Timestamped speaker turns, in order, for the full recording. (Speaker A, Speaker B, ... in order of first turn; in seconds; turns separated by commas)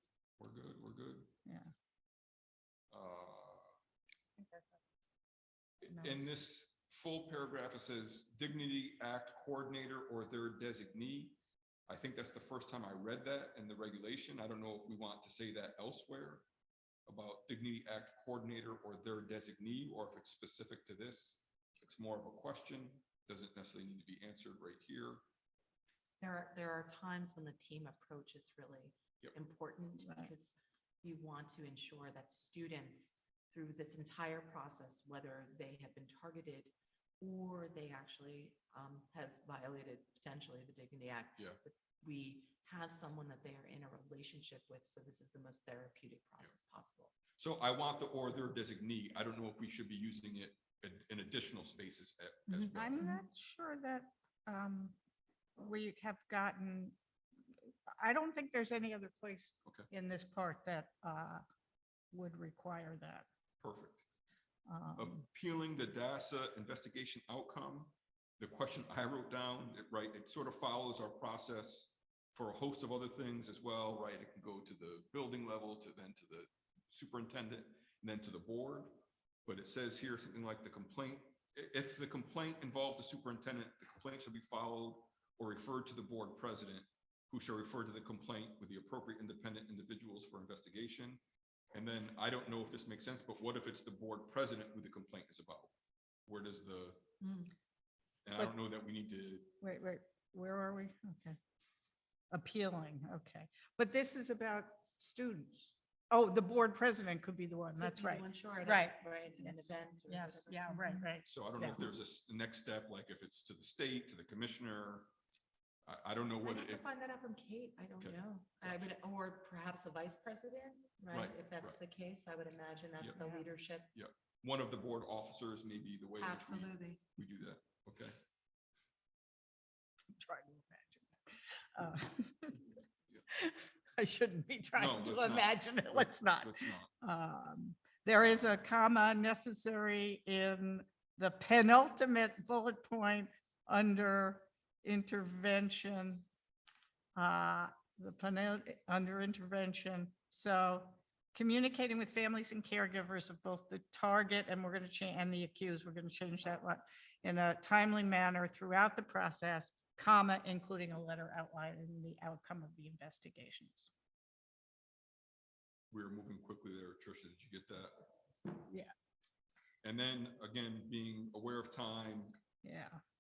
Speaker A: 0.4-1.3, Speaker B: 1.5-1.7, Speaker A: 2.9-3.7, Speaker B: 4.4-4.8, Speaker A: 5.8-16.4, Speaker B: 5.9-6.3, Speaker A: 17.1-25.2, Speaker C: 26.2-47.1, Speaker B: 30.0-30.3, Speaker A: 47.4-53.0, Speaker C: 52.5-53.2, Speaker B: 52.7-55.0, Speaker B: 55.6-57.0, Speaker B: 58.0-61.4, Speaker B: 62.1-63.3, Speaker A: 63.6-64.0, Speaker B: 64.7-65.2, Speaker A: 65.0-78.9, Speaker A: 79.5-91.2, Speaker A: 91.7-95.7, Speaker A: 96.3-97.0, Speaker C: 97.2-97.5, Speaker A: 98.2-99.5, Speaker B: 99.6-101.4, Speaker B: 102.3-111.8, Speaker C: 107.8-111.0, Speaker A: 111.2-115.1, Speaker A: 115.9-116.8, Speaker C: 116.4-123.9, Speaker A: 118.0-118.9, Speaker A: 121.1-121.8, Speaker B: 123.2-123.4, Speaker A: 123.9-128.2, Speaker C: 126.2-127.0, Speaker B: 130.2-132.8, Speaker B: 133.3-146.3, Speaker A: 134.8-136.9, Speaker B: 147.2-163.9, Speaker A: 165.9-168.1, Speaker B: 168.7-168.9, Speaker A: 169.8-172.3, Speaker B: 172.6-173.0